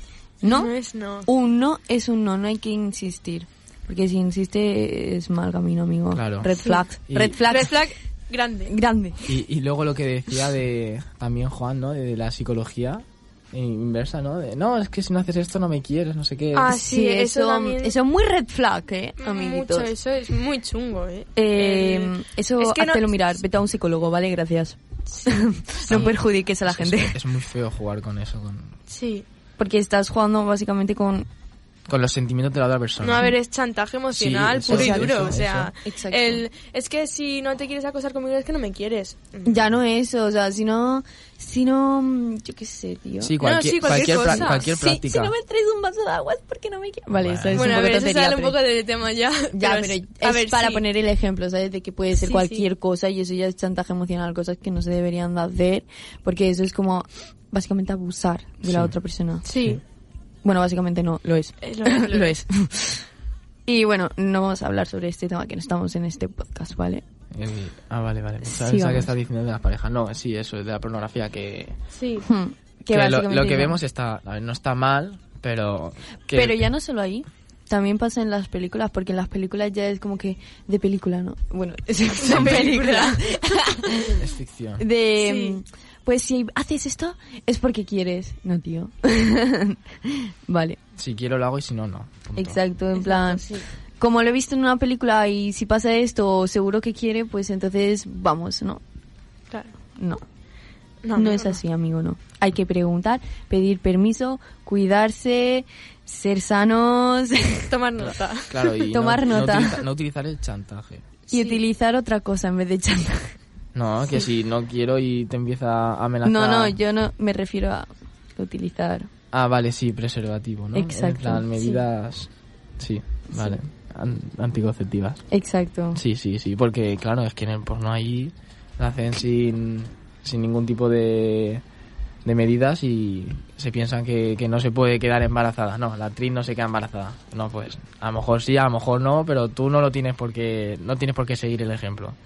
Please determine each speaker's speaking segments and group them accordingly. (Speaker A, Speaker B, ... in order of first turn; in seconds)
Speaker A: 0.4-0.7, 1.3-7.8, 8.7-9.3, 16.7-19.9, 21.4-27.2, 29.6-31.3, 34.7-36.5, 39.5-48.6, 49.5-59.5, 60.4-63.1, 63.7-67.0, 68.5-69.1, 72.2-73.8, 76.3-84.2, 84.8-90.8, 92.4-98.8, 100.0-100.2, 101.2-107.7, 108.9-109.8, 111.3-113.3, 116.2-119.1, 120.7-121.6, 123.3-123.6, 125.3-126.0
Speaker B: 0.4-1.3, 6.6-6.8, 7.4-8.8, 16.5-17.9, 19.2-23.2, 25.1-26.1, 28.9-29.2, 33.0-39.6, 43.4-44.7, 47.5-50.8, 52.2-52.7, 59.5-59.8, 61.6-62.4, 72.0-72.3, 82.2-84.1, 85.2-85.6, 93.0-93.7, 101.0-101.6, 107.7-108.8, 111.3-111.6
Speaker C: 6.1-6.5, 7.1-7.4, 9.3-16.8, 25.9-28.8, 31.9-33.3, 34.1-35.7, 43.2-45.3, 47.1-47.9, 58.7-58.9, 67.3-71.8, 72.9-76.6, 82.3-82.7, 84.2-84.8, 91.0-92.6, 108.5-111.0, 113.8-116.8, 119.3-125.2, 126.0-131.6, 132.2-142.2